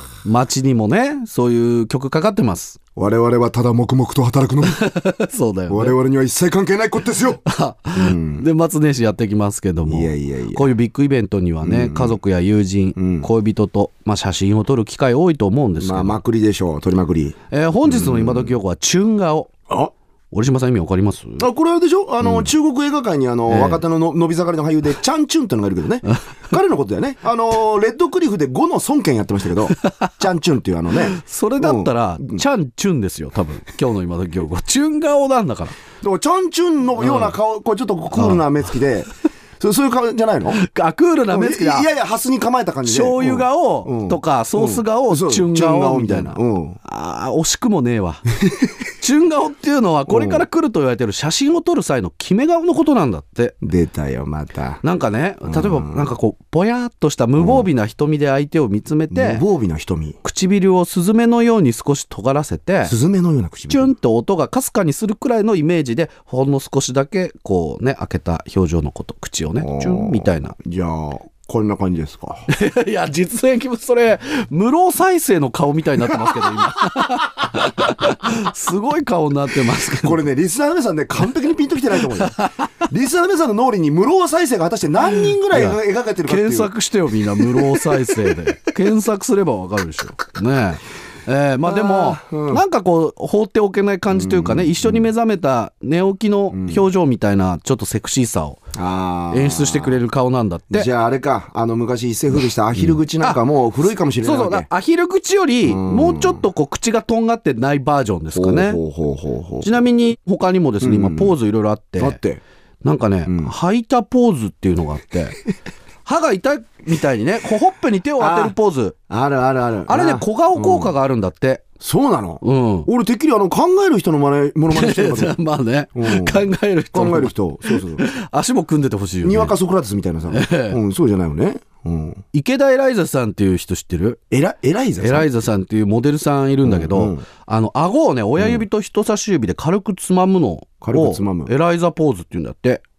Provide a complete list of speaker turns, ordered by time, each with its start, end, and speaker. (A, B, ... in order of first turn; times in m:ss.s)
0:00.2-0:02.8 A
0:03.0-0:04.8 B
0:04.6-0:06.0 A
0:05.7-0:07.4 B
0:07.4-0:16.2 A
0:07.9-0:08.4 B
0:09.8-0:10.7 B
0:11.6-0:12.2 B
0:13.0-0:13.3 B
0:15.8-0:18.5 B
0:17.5-0:19.5 A
0:20.3-0:21.4 A
0:21.4-0:32.4 B
0:22.2-0:22.5 A
0:23.5-0:23.8 A
0:29.8-0:30.1 A
0:31.0-0:35.8 A
0:36.0-0:40.6 B
0:37.0-0:37.3 A
0:38.1-0:38.8 A
0:40.5-0:41.9 A
0:41.3-0:46.8 B
0:42.8-0:48.2 A
0:48.4-0:48.7 B
0:49.0-0:53.5 A
0:50.1-0:50.4 B
0:53.6-0:54.8 B
0:54.8-0:59.4 A
0:55.4-0:56.1 B
0:57.4-0:57.7 B
0:59.1-1:00.2 B
1:00.2-1:02.9 A
1:02.8-1:03.9 B
1:03.7-1:10.6 A
1:09.6-1:12.5 B
1:12.5-1:20.2 A
1:16.2-1:16.8 B
1:20.0-1:28.4 B
1:22.0-1:22.8 A
1:25.1-1:38.6 A
1:31.6-1:32.6 B
1:34.1-1:35.1 B
1:36.5-1:36.9 B
1:38.7-1:40.0 B
1:39.3-1:40.9 A
1:40.7-1:44.6 B
1:42.7-1:43.4 A
1:44.2-1:48.8 A
1:45.6-1:46.4 B
1:48.3-1:49.8 B
1:49.6-1:52.2 A
1:50.8-1:51.3 B
1:52.0-1:52.4 B
1:52.8-1:55.4 A
1:53.3-1:53.5 B
1:56.0-1:59.0 A
1:58.2-1:58.5 B
1:59.1-2:00.9 B
1:59.9-2:01.6 A
2:01.8-2:05.4 B
2:02.4-2:02.9 A
2:04.7-2:09.5 A
2:05.9-2:08.1 B
2:09.2-2:12.2 B
2:10.3-2:10.8 A
2:12.3-2:14.2 A
2:14.3-2:15.4 B
2:15.0-2:22.8 A
2:16.6-2:17.2 B
2:18.4-2:18.6 B
2:20.8-2:21.5 B